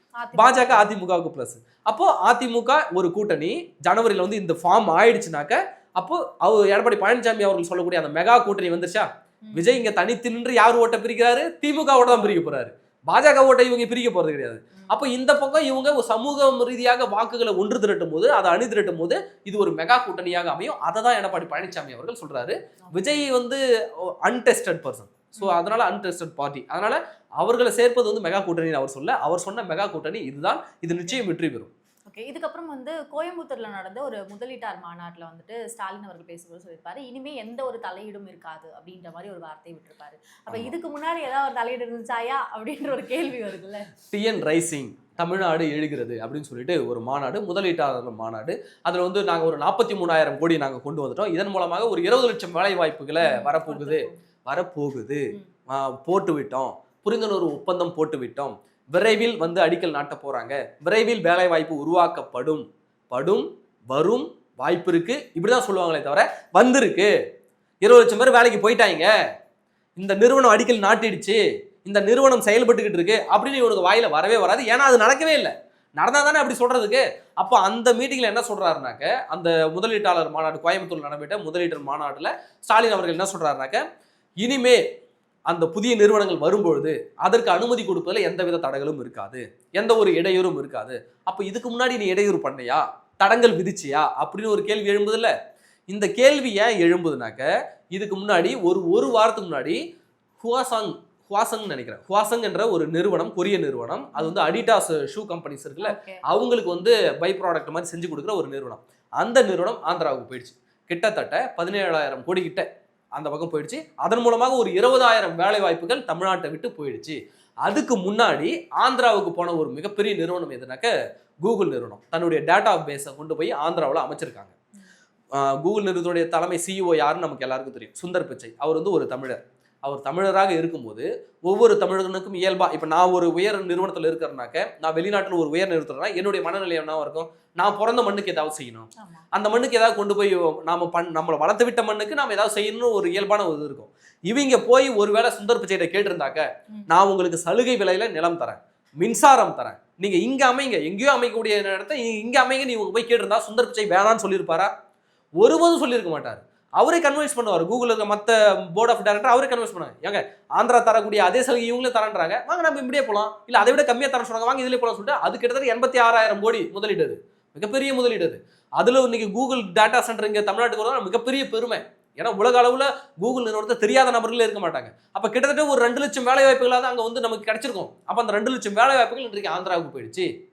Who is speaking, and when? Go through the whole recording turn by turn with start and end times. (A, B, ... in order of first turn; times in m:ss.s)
0:00.2-0:00.9 A
0:00.4-0:31.7 B
0:09.5-0:09.8 A
0:12.0-0:12.4 A
0:22.9-0:23.2 A
0:30.9-0:31.2 A
0:32.1-0:43.9 A
0:44.1-1:07.1 B
0:53.2-0:54.2 A
1:07.8-1:09.1 B
1:10.0-1:23.8 B
1:24.4-1:24.8 B
1:25.5-1:35.3 B
1:35.9-1:39.8 B
1:40.4-2:04.5 B
1:44.1-1:44.4 A
1:45.8-1:46.2 A
2:05.4-2:34.7 B
2:19.0-2:19.3 A
2:35.4-3:00.3 B